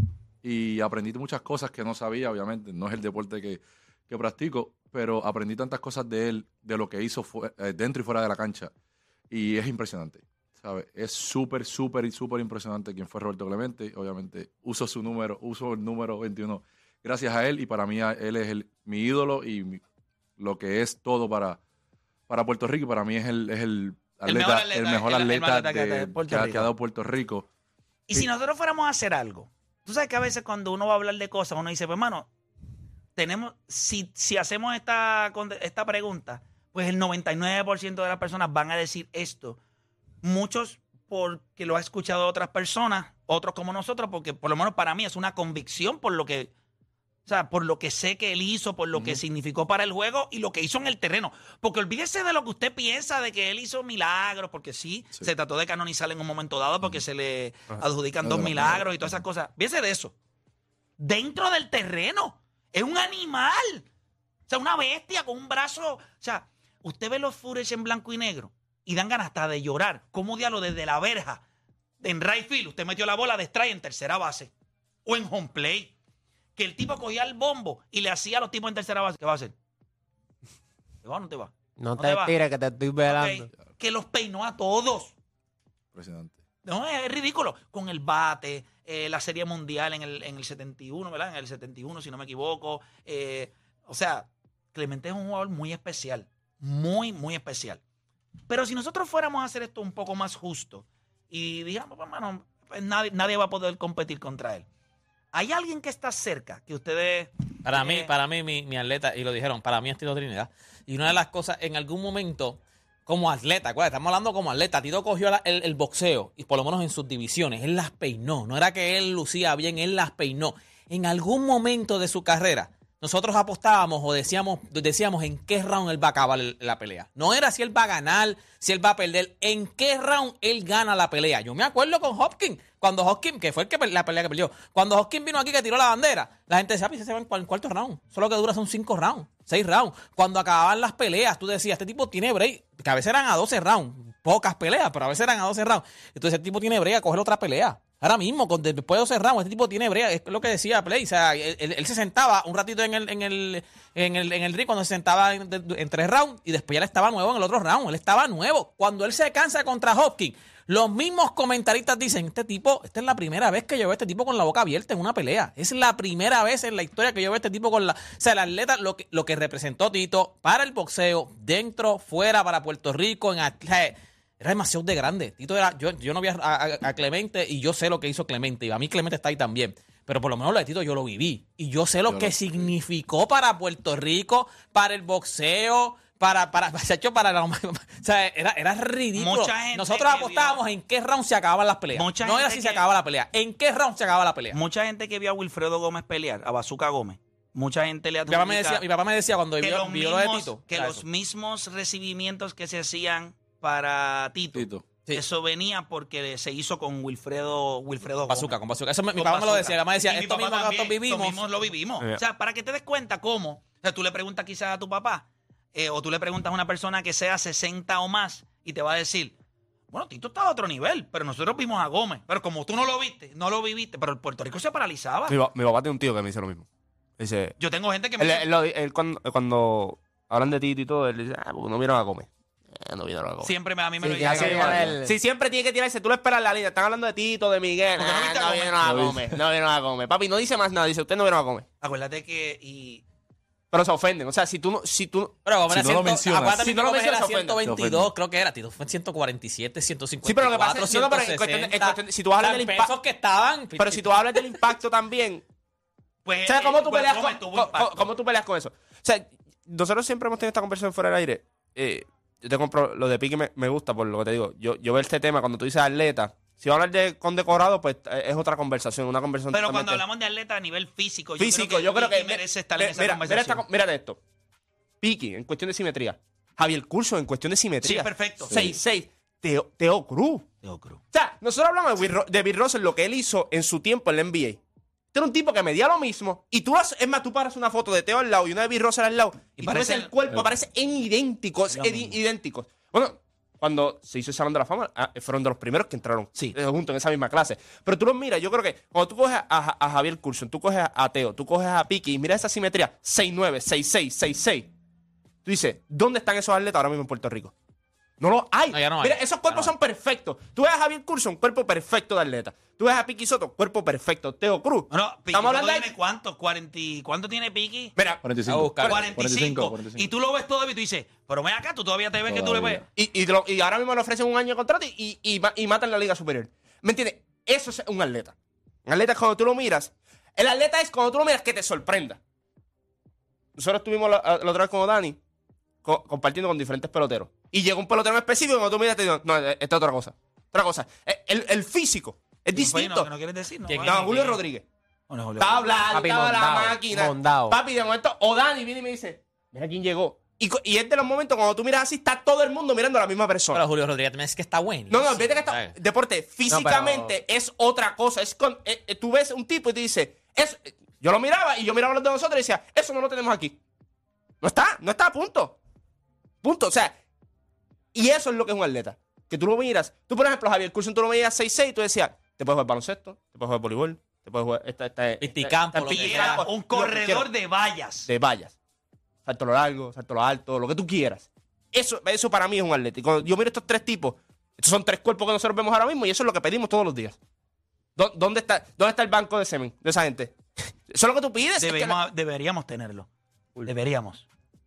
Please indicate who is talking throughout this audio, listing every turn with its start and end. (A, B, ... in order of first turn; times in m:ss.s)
0:00.4-0:08.7 A
0:09.3-0:19.8 A
0:20.4-0:21.6 A
0:22.3-0:27.5 A
0:24.2-0:26.7 B
0:28.1-0:32.3 B
0:33.2-0:39.6 B
0:40.2-0:46.5 B
0:47.2-1:00.1 B
0:58.2-0:59.2 A
1:01.0-1:03.8 B
1:04.5-1:11.4 B
1:12.0-1:14.5 B
1:15.0-1:15.9 B
1:16.6-1:19.5 B
1:21.0-1:22.3 B
1:21.8-1:23.5 C
1:23.0-1:25.1 B
1:25.9-1:26.4 A
1:26.6-1:37.8 B
1:38.5-1:44.6 B
1:45.3-1:48.1 B
1:47.6-3:14.6 D
3:02.1-3:02.7 A
3:09.2-3:10.6 B
3:11.9-3:12.8 B
3:14.5-3:18.8 B
3:18.3-3:21.0 D
3:19.6-3:28.6 B
3:24.5-3:24.9 A
3:28.3-3:31.4 D
3:29.1-3:39.3 B
3:39.9-3:45.4 B
3:45.3-3:46.7 E
3:47.2-3:47.5 E
3:47.6-3:48.5 B
3:48.2-3:53.5 E
3:53.4-3:54.9 B
3:54.0-3:55.2 C
3:54.2-4:01.7 E
3:58.0-3:58.8 B
3:58.8-3:59.2 A
4:01.8-4:03.0 B
4:03.7-4:05.4 E
4:05.4-4:14.6 D
4:05.7-4:06.7 A
4:06.5-4:07.6 E
4:07.6-4:08.1 A
4:10.2-4:12.9 E
4:13.8-4:15.4 E
4:16.2-4:18.1 B
4:16.4-4:30.0 E
4:29.5-4:33.6 B
4:31.4-4:34.2 E
4:35.0-4:40.5 E
4:37.8-4:38.7 B
4:40.6-4:41.0 B
4:41.1-4:44.6 E
4:45.1-5:04.7 E
4:49.6-4:50.1 B
4:51.7-4:52.2 B
5:05.4-5:07.5 E
5:08.2-5:15.9 E
5:08.7-5:09.7 D
5:14.9-5:17.9 B
5:18.0-5:18.3 E
5:18.2-5:20.1 A
5:18.5-5:19.0 D
5:18.9-5:22.8 B
5:22.2-5:22.8 A
5:22.9-5:28.3 E
5:28.8-5:32.2 E
5:33.6-5:35.2 E
5:35.8-5:43.1 E
5:42.5-5:44.4 B
5:43.7-5:44.3 D
5:43.8-5:44.6 E
5:45.1-5:45.8 B
5:45.4-5:53.6 E
5:45.9-5:47.6 C
5:53.5-5:55.7 D
5:54.9-6:03.6 E
5:56.5-5:57.2 C
6:04.4-6:05.6 E
6:06.4-6:06.9 E
6:07.9-6:17.3 E
6:15.2-6:16.4 D
6:15.9-6:18.1 B
6:18.1-6:18.6 E
6:19.2-6:27.2 E
6:28.0-6:32.0 E
6:31.6-6:33.1 B
6:33.6-6:34.3 B